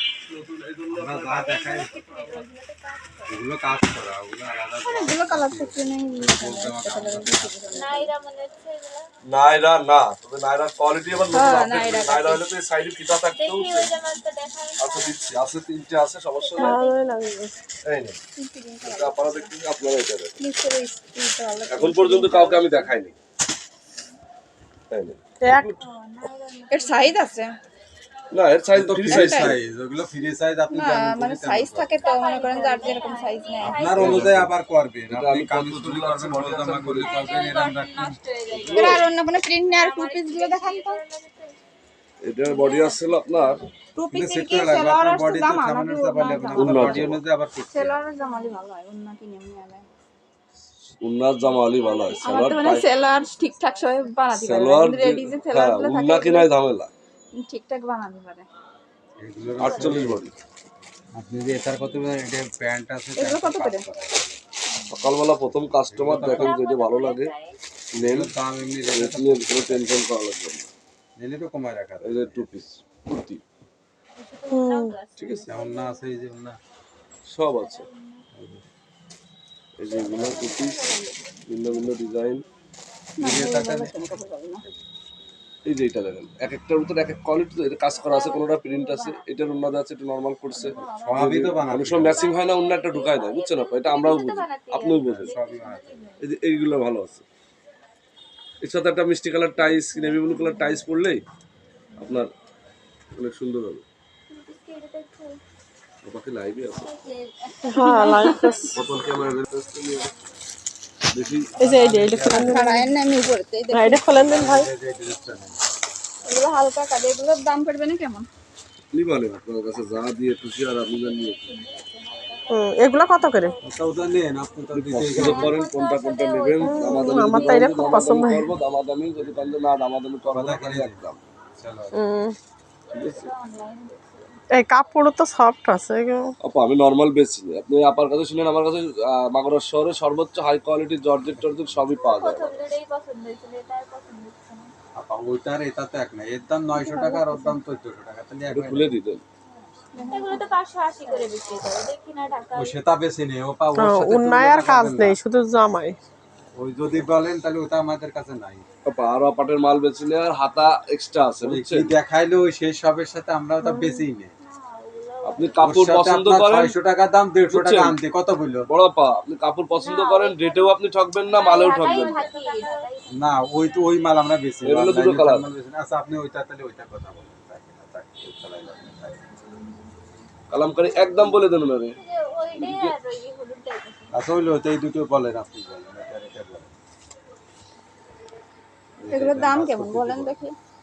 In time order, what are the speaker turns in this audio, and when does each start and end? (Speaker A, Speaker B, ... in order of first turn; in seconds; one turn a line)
Speaker A: 0.3-2.4
Speaker B: 0.9-1.9
Speaker C: 1.4-3.4
Speaker B: 3.3-7.8
Speaker D: 4.8-8.1
Speaker C: 7.7-9.1
Speaker A: 9.2-14.0
Speaker D: 11.3-12.4
Speaker C: 13.3-15.2
Speaker A: 14.8-16.8
Speaker C: 16.5-17.0
Speaker E: 16.6-17.6
Speaker A: 17.8-18.2
Speaker D: 18.4-19.5
Speaker A: 18.8-20.4
Speaker D: 20.4-22.9
Speaker A: 21.7-23.1
Speaker A: 24.9-25.8
Speaker E: 25.4-25.7
Speaker C: 25.8-27.2
Speaker D: 26.7-27.5
Speaker A: 28.3-29.6
Speaker B: 28.7-32.1
Speaker D: 29.1-29.6
Speaker D: 30.7-34.3
Speaker C: 32.0-34.2
Speaker B: 33.5-38.2
Speaker A: 33.8-34.5
Speaker A: 35.1-37.2
Speaker C: 37.0-39.1
Speaker D: 37.2-37.7
Speaker A: 38.5-39.0
Speaker D: 38.5-41.0
Speaker C: 39.7-41.6
Speaker A: 42.2-43.7
Speaker C: 42.5-43.3
Speaker D: 44.0-47.1
Speaker B: 44.1-48.0
Speaker A: 46.5-47.2
Speaker D: 47.7-49.9
Speaker C: 48.2-48.6
Speaker A: 51.0-52.9
Speaker C: 52.0-54.0
Speaker D: 52.2-56.5
Speaker A: 54.3-56.9
Speaker D: 57.4-58.5
Speaker B: 59.2-60.3
Speaker A: 59.6-60.3
Speaker C: 59.7-60.0
Speaker B: 61.1-64.4
Speaker D: 63.1-63.9
Speaker A: 64.9-67.3
Speaker B: 65.9-66.6
Speaker C: 66.2-67.6
Speaker A: 67.9-68.3
Speaker B: 68.0-69.9
Speaker A: 68.9-70.7
Speaker B: 71.2-72.5
Speaker A: 72.0-73.4
Speaker C: 74.2-76.1
Speaker E: 74.5-74.9
Speaker A: 75.2-75.5
Speaker B: 75.5-76.6
Speaker A: 77.2-77.9
Speaker C: 77.5-78.2
Speaker B: 78.3-78.6
Speaker A: 79.8-80.8
Speaker C: 79.9-81.2
Speaker D: 80.1-81.0
Speaker A: 81.5-82.4
Speaker D: 83.2-84.6
Speaker B: 83.2-84.2
Speaker A: 85.7-95.3
Speaker C: 88.0-89.2
Speaker D: 88.2-88.4
Speaker C: 90.5-91.0
Speaker D: 90.8-91.2
Speaker B: 90.9-92.3
Speaker C: 91.9-96.2
Speaker B: 95.0-96.0
Speaker A: 96.2-97.2
Speaker A: 98.6-101.2
Speaker A: 102.0-102.3
Speaker A: 103.1-103.8
Speaker C: 104.3-105.3
Speaker D: 104.5-104.8
Speaker A: 106.0-106.9
Speaker C: 106.8-108.4
Speaker D: 107.6-108.6
Speaker E: 107.7-108.8
Speaker A: 108.7-110.1
Speaker A: 111.1-111.6
Speaker B: 111.6-112.6
Speaker E: 111.6-112.8
Speaker D: 112.3-114.2
Speaker E: 113.7-114.7
Speaker B: 114.1-115.6
Speaker D: 116.2-118.3
Speaker A: 118.9-121.6
Speaker C: 120.9-123.6
Speaker E: 122.5-123.5
Speaker B: 123.6-125.6
Speaker A: 124.7-131.2
Speaker C: 125.2-128.1
Speaker E: 126.6-128.5
Speaker B: 130.3-131.0
Speaker B: 131.6-132.0
Speaker E: 131.9-132.3
Speaker A: 132.9-133.3
Speaker D: 133.0-134.1
Speaker C: 133.3-134.2
Speaker E: 134.5-136.3
Speaker A: 136.4-142.6
Speaker B: 141.3-141.8
Speaker C: 142.0-144.7
Speaker B: 144.9-148.9
Speaker D: 146.8-147.5
Speaker A: 148.5-149.2
Speaker D: 149.9-150.5
Speaker C: 150.0-152.7
Speaker D: 151.0-151.3
Speaker B: 152.5-155.2
Speaker E: 153.7-156.0
Speaker B: 156.5-158.7
Speaker A: 158.8-161.9
Speaker B: 161.4-164.3
Speaker E: 163.6-164.0
Speaker C: 164.4-165.7
Speaker A: 165.2-166.7
Speaker B: 165.6-168.7
Speaker A: 167.5-168.0
Speaker A: 168.7-172.2
Speaker C: 169.8-170.7
Speaker C: 171.2-173.3
Speaker D: 171.5-172.9
Speaker B: 173.1-179.3
Speaker A: 174.6-175.5
Speaker A: 180.5-182.0
Speaker C: 181.9-184.1
Speaker A: 182.5-182.9
Speaker B: 184.1-186.7
Speaker B: 189.0-190.4
Speaker D: 189.1-190.5